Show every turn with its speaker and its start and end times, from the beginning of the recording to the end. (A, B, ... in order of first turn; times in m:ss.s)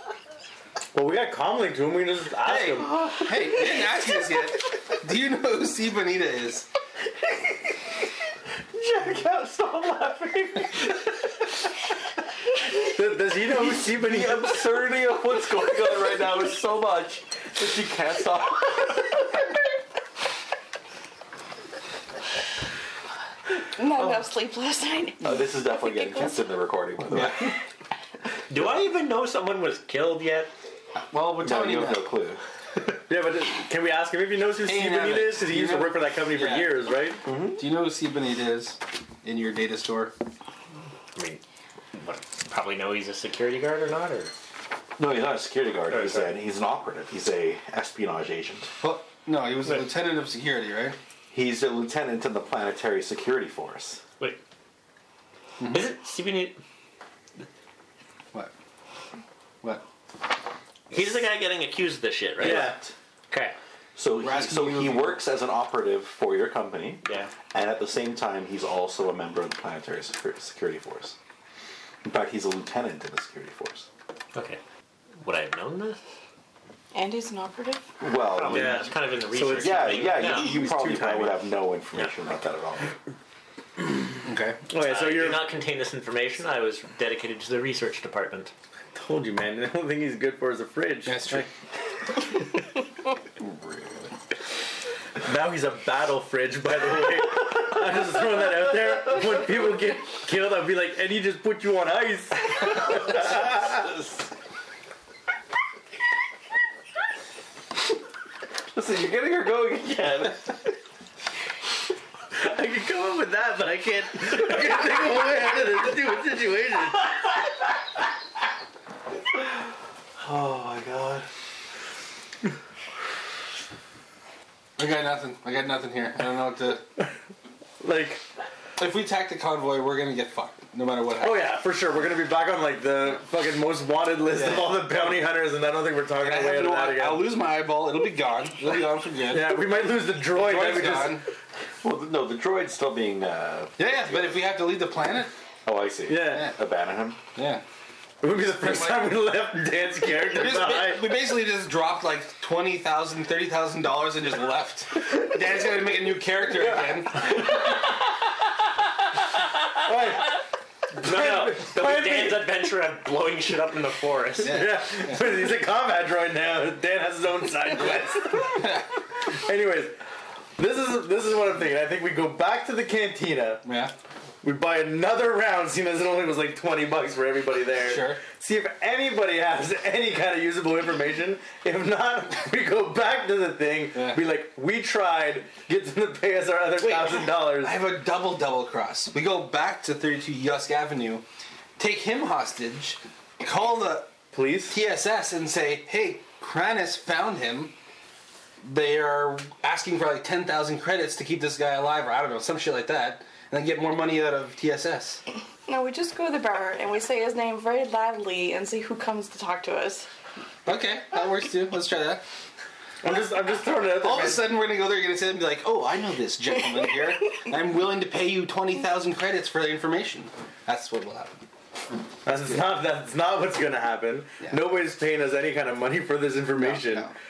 0:00.9-0:03.2 A
0:02.4-0:06.7 B
0:08.7-0:10.9 C
0:12.8-0:14.6 A
0:13.5-0:19.4 C
0:23.7-0:26.4 D
0:23.9-0:24.3 C
0:25.2-0:27.6 C
0:27.1-0:27.5 B
0:28.5-0:30.5 E
0:31.0-0:32.1 B
0:31.4-0:32.4 C
0:33.1-0:37.2 A
0:34.6-0:36.8 B
0:37.2-0:37.6 C
0:37.6-0:40.1 B
0:41.1-0:41.4 E
0:41.9-0:44.3 E
0:45.0-0:48.7 C
0:45.9-0:46.3 E
0:48.8-0:51.0 B
0:51.3-0:54.0 C
0:55.6-0:55.8 B
0:55.6-0:56.6 E
1:00.9-1:02.8 E
1:02.4-1:02.8 A
1:02.4-1:02.9 C
1:03.3-1:03.5 E
1:04.0-1:11.2 C
1:04.2-1:05.2 B
1:07.0-1:07.3 E
1:12.0-1:13.9 C
1:14.3-1:14.6 E
1:15.2-1:16.0 E
1:16.9-1:17.8 D
1:18.0-1:18.9 C
1:18.3-1:20.5 E
1:18.5-1:21.5 A
1:19.5-1:22.9 C
1:24.2-1:24.6 B
1:24.7-1:25.5 A
1:24.7-1:28.5 E
1:28.9-1:31.2 A
1:31.0-1:31.5 B
1:33.4-1:34.1 C
1:35.2-1:43.9 A
1:43.2-1:44.1 C
1:48.7-1:50.6 C
1:52.3-1:57.1 A
2:00.2-2:01.3 C
2:04.8-2:06.8 B
2:07.8-2:08.2 A
2:08.8-2:11.4 B
2:11.2-2:17.3 A
2:14.3-2:15.1 B
2:16.2-2:19.7 B
2:19.3-2:21.2 A
2:20.2-2:21.2 B
2:21.8-2:24.4 C
2:23.8-2:25.3 B
2:25.6-2:27.2 C
2:26.1-2:26.5 A
2:26.3-2:26.6 B
2:27.3-2:27.6 B
2:28.2-2:31.1 A
2:28.6-2:29.1 B
2:30.2-2:37.5 B
2:39.8-2:40.4 A
2:41.0-2:42.5 A
2:41.0-2:44.6 E
2:44.4-2:50.0 A
2:44.4-2:45.2 B
2:48.3-2:48.8 B
2:50.6-2:53.6 A
2:53.6-2:53.9 B
2:54.4-3:07.7 A
2:57.8-2:58.2 B
3:03.9-3:04.2 B
3:06.8-3:11.2 B
3:11.8-3:14.1 B
3:14.3-3:14.8 A
3:14.7-3:17.7 B
3:18.6-3:25.2 B
3:25.6-3:30.1 D
3:30.6-3:32.2 B
3:33.0-3:34.4 A
3:34.0-3:41.4 B
3:42.2-3:47.1 A
3:46.5-3:47.1 B